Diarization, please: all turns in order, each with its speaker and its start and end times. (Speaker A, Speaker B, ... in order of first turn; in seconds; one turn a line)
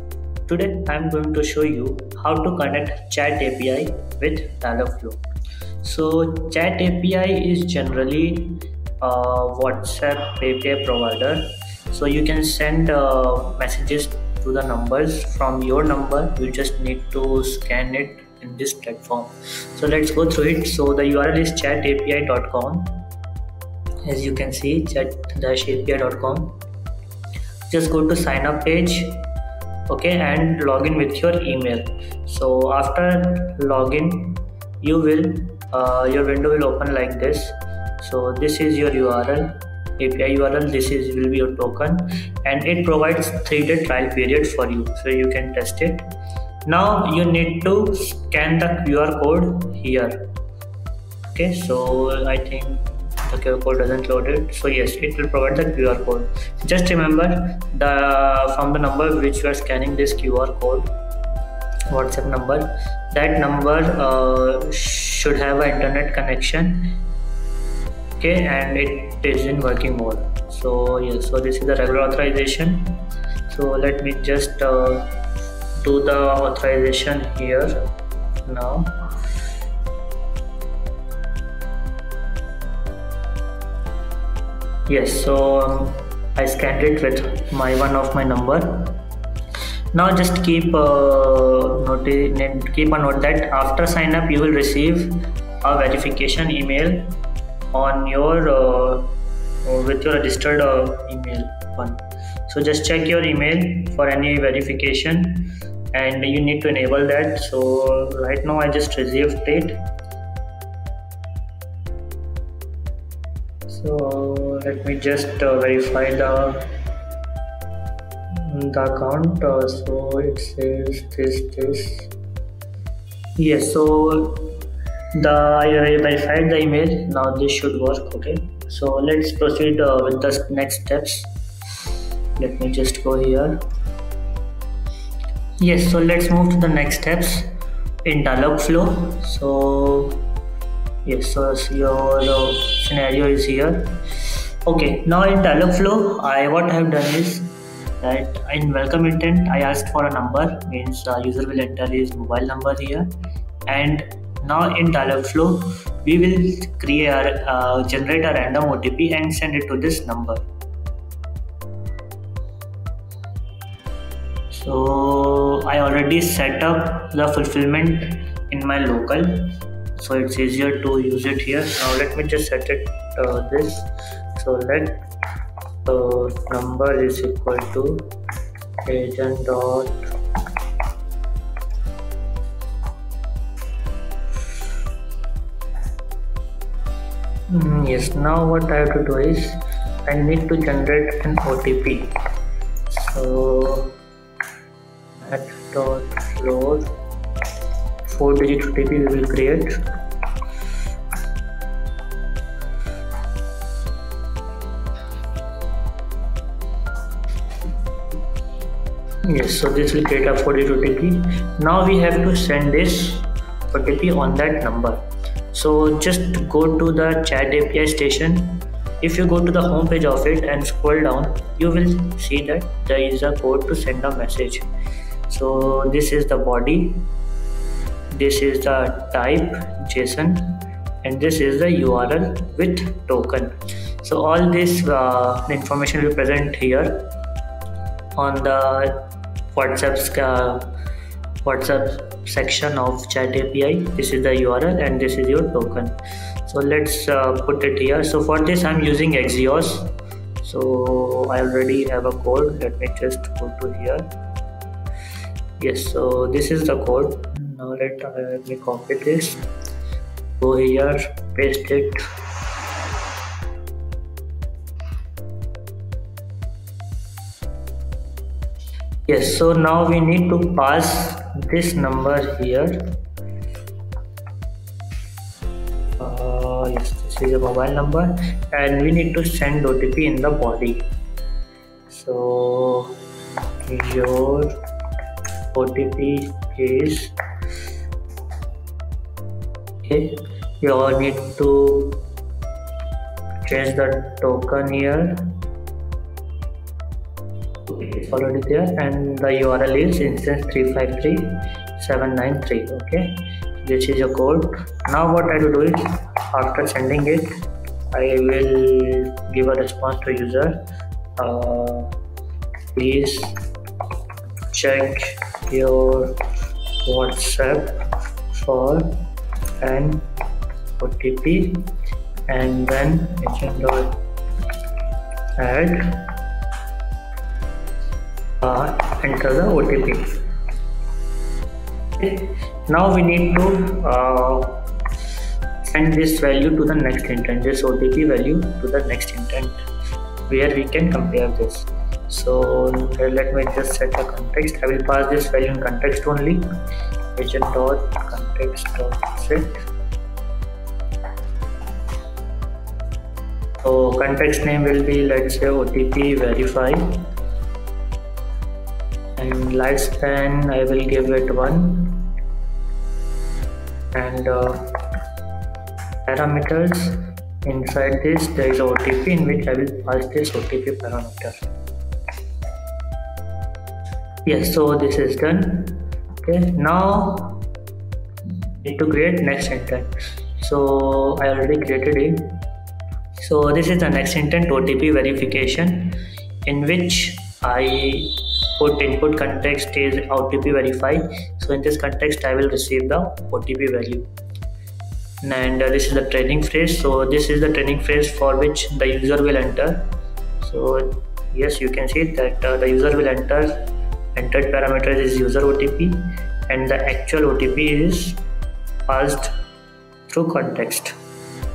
Speaker A: 0.5-5.2
Speaker A: 5.8-23.0
Speaker A: 24.1-26.6
Speaker A: 27.7-29.3
Speaker A: 29.9-46.1
Speaker A: 46.7-50.3
Speaker A: 51.3-60.9
Speaker A: 61.9-67.0
Speaker A: 68.2-75.1
Speaker A: 75.8-77.9
Speaker A: 78.5-78.9
Speaker A: 84.9-89.0
Speaker A: 89.9-97.2
Speaker A: 97.7-99.1
Speaker A: 99.6-109.9
Speaker A: 113.7-116.7
Speaker A: 118.4-122.1
Speaker A: 123.4-124.6
Speaker A: 125.1-131.3
Speaker A: 132.4-133.6
Speaker A: 135.6-137.5
Speaker A: 138.1-140.2
Speaker A: 141.1-144.0
Speaker A: 144.7-153.2
Speaker A: 153.7-160.4
Speaker A: 164.5-175.1
Speaker A: 175.8-178.1
Speaker A: 178.8-180.1
Speaker A: 187.5-192.2
Speaker A: 192.9-194.0
Speaker A: 195.2-196.8
Speaker A: 198.1-199.8
Speaker A: 209.3-215.0
Speaker A: 215.5-224.7
Speaker A: 225.3-227.1
Speaker A: 228.1-237.1
Speaker A: 238.2-240.7
Speaker A: 241.4-245.9
Speaker A: 246.5-254.1
Speaker A: 255.6-259.4
Speaker A: 260.4-262.0
Speaker A: 269.1-273.0
Speaker A: 276.0-280.9
Speaker A: 281.9-283.0
Speaker A: 283.7-284.5
Speaker A: 285.5-287.1
Speaker A: 289.8-292.0
Speaker A: 293.5-295.3
Speaker A: 297.7-310.6
Speaker A: 311.2-311.9
Speaker A: 312.7-313.4
Speaker A: 314.5-316.1
Speaker A: 316.8-317.8
Speaker A: 318.3-319.0
Speaker A: 319.6-320.0
Speaker A: 320.8-321.7
Speaker A: 322.3-324.0
Speaker A: 325.4-326.1
Speaker A: 328.4-330.2
Speaker A: 332.0-334.7
Speaker A: 335.6-339.6
Speaker A: 340.3-346.5
Speaker A: 347.1-349.7
Speaker A: 353.6-357.1
Speaker A: 359.2-362.1
Speaker A: 363.9-364.7
Speaker A: 366.1-371.4
Speaker A: 374.2-377.4
Speaker A: 378.6-382.4
Speaker A: 383.2-394.1
Speaker A: 395.2-408.2
Speaker A: 408.9-409.4
Speaker A: 410.1-410.9